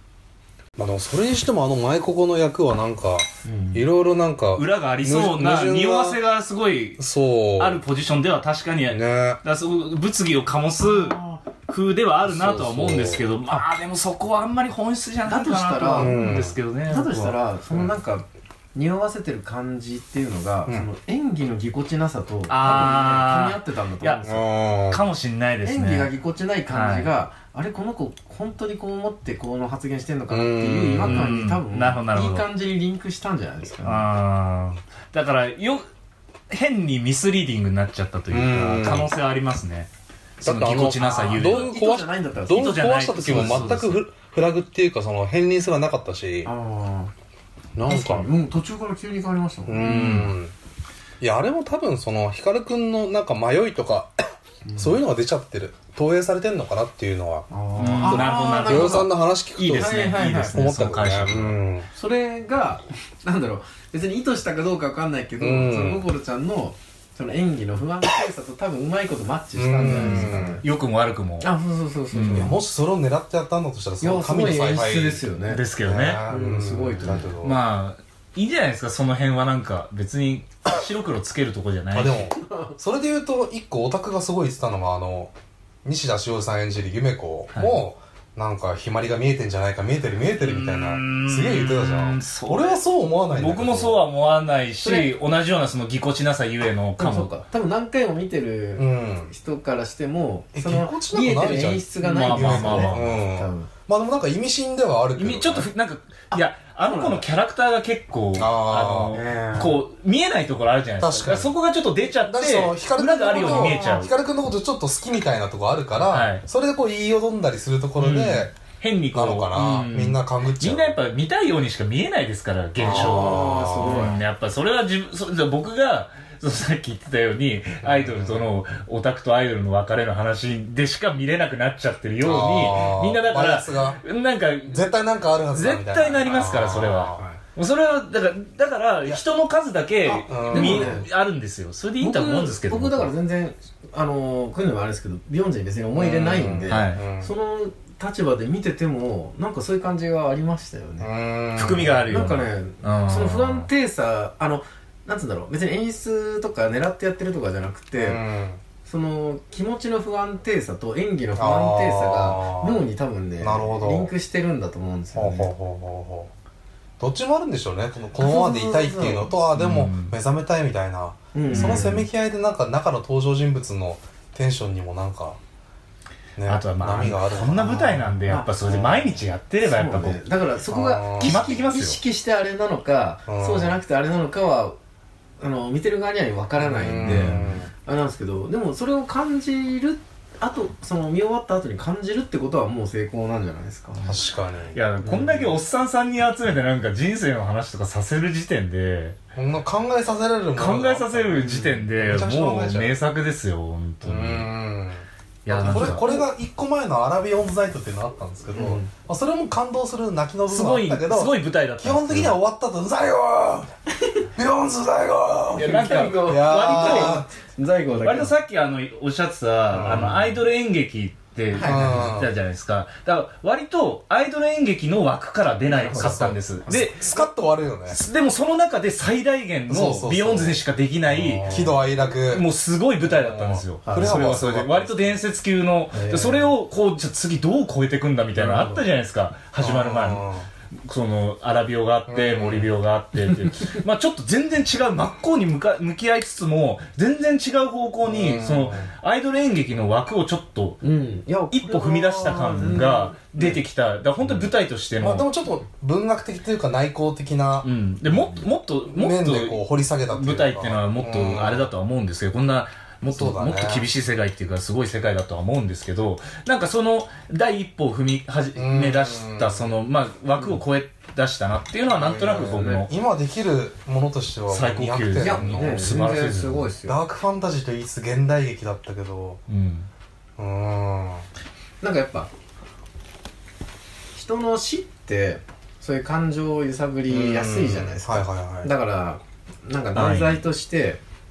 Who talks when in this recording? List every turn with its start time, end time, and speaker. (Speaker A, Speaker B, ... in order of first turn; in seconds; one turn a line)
Speaker A: 0.8-6.2
Speaker B: 3.4-3.9
Speaker C: 4.5-7.0
Speaker A: 7.0-7.8
Speaker C: 7.6-17.4
Speaker A: 8.9-9.4
Speaker B: 10.8-11.4
Speaker A: 12.2-13.2
Speaker B: 15.3-16.3
Speaker A: 16.0-16.6
Speaker B: 16.9-24.5
Speaker C: 22.5-24.2
Speaker A: 24.2-25.0
Speaker C: 24.8-26.1
Speaker B: 25.6-34.1
Speaker C: 26.7-27.1
Speaker A: 30.3-31.3
Speaker C: 31.0-32.5
Speaker C: 33.8-35.9
Speaker C: 36.5-39.9
Speaker A: 38.3-39.1
Speaker C: 40.4-41.7
Speaker A: 40.4-46.5
Speaker B: 41.0-43.7
Speaker C: 42.5-44.0
Speaker B: 46.4-47.1
Speaker A: 47.8-48.3
Speaker B: 47.9-50.0
Speaker A: 49.7-50.5
Speaker C: 49.8-50.3
Speaker A: 51.2-54.1
Speaker B: 54.6-55.0
Speaker A: 54.8-61.9
Speaker B: 57.5-59.1
Speaker C: 57.8-61.6
Speaker B: 59.7-60.6
Speaker B: 61.9-70.6
Speaker A: 65.4-66.0
Speaker A: 69.5-70.6
Speaker C: 69.9-71.5
Speaker B: 71.4-72.5
Speaker C: 72.1-72.5
Speaker A: 72.3-75.2
Speaker B: 74.0-75.6
Speaker C: 75.5-76.2
Speaker A: 75.8-77.6
Speaker B: 76.3-77.3
Speaker C: 77.4-82.3
Speaker A: 81.9-85.3
Speaker B: 82.4-82.7
Speaker A: 85.8-94.0
Speaker C: 87.5-87.8
Speaker C: 90.4-92.8
Speaker C: 93.3-97.3
Speaker B: 94.8-95.1
Speaker B: 97.0-103.7
Speaker A: 98.8-99.3
Speaker A: 100.5-105.7
Speaker C: 102.0-103.1
Speaker C: 105.2-114.1
Speaker B: 106.3-107.2
Speaker A: 108.3-109.2
Speaker B: 109.1-109.8
Speaker A: 111.0-111.5
Speaker A: 112.2-118.5
Speaker B: 113.3-114.0
Speaker C: 116.1-116.4
Speaker C: 118.0-134.9
Speaker A: 119.1-121.0
Speaker A: 122.8-124.2
Speaker B: 122.9-124.2
Speaker A: 127.8-128.5
Speaker A: 132.2-134.0
Speaker A: 134.7-137.4
Speaker C: 135.5-143.1
Speaker A: 140.1-141.1
Speaker B: 140.1-141.1
Speaker B: 142.0-151.1
Speaker A: 145.9-147.3
Speaker C: 146.7-147.0
Speaker A: 151.0-152.2
Speaker C: 151.6-153.7
Speaker B: 152.1-158.2
Speaker A: 158.0-158.6
Speaker B: 158.8-165.5
Speaker A: 161.4-162.8
Speaker A: 163.4-164.1
Speaker A: 165.1-166.3
Speaker A: 167.0-175.4
Speaker B: 168.1-169.3
Speaker C: 169.6-170.1
Speaker B: 171.3-172.1
Speaker C: 171.5-172.0
Speaker A: 176.4-179.2
Speaker C: 176.4-180.2
Speaker B: 178.2-178.5
Speaker B: 179.6-184.8
Speaker A: 180.7-181.5
Speaker C: 181.2-182.0
Speaker A: 183.3-183.8
Speaker B: 185.4-194.2
Speaker A: 186.6-187.7
Speaker A: 194.1-194.8
Speaker C: 194.7-199.2
Speaker B: 195.0-195.5
Speaker A: 199.3-202.9
Speaker C: 200.6-204.5
Speaker B: 201.4-201.8
Speaker A: 204.0-213.7
Speaker C: 205.4-206.1
Speaker B: 205.5-206.3
Speaker B: 208.5-208.9
Speaker C: 210.5-212.4
Speaker A: 214.4-217.3
Speaker C: 215.6-217.2
Speaker B: 215.6-218.4
Speaker C: 217.9-227.2
Speaker A: 219.7-220.4
Speaker B: 221.5-222.1
Speaker A: 221.6-222.3
Speaker B: 225.7-226.3
Speaker A: 226.0-228.0
Speaker C: 227.9-240.2
Speaker A: 229.7-232.5
Speaker B: 231.4-231.7
Speaker A: 233.0-235.2
Speaker B: 233.8-234.3
Speaker B: 235.9-236.5
Speaker B: 238.4-238.8
Speaker A: 239.6-240.5
Speaker C: 240.8-250.8
Speaker A: 242.1-242.7
Speaker A: 248.0-248.9
Speaker B: 250.8-253.6
Speaker C: 251.5-255.3
Speaker A: 254.3-261.7
Speaker C: 257.6-272.9
Speaker A: 263.1-263.9
Speaker A: 268.6-269.7
Speaker A: 271.9-276.0
Speaker B: 272.2-272.8
Speaker C: 274.5-276.7
Speaker B: 275.2-277.0
Speaker A: 276.9-279.4
Speaker C: 279.5-279.9
Speaker A: 280.4-281.2
Speaker B: 281.8-282.3
Speaker B: 284.1-291.0
Speaker A: 287.1-288.7
Speaker C: 289.9-290.4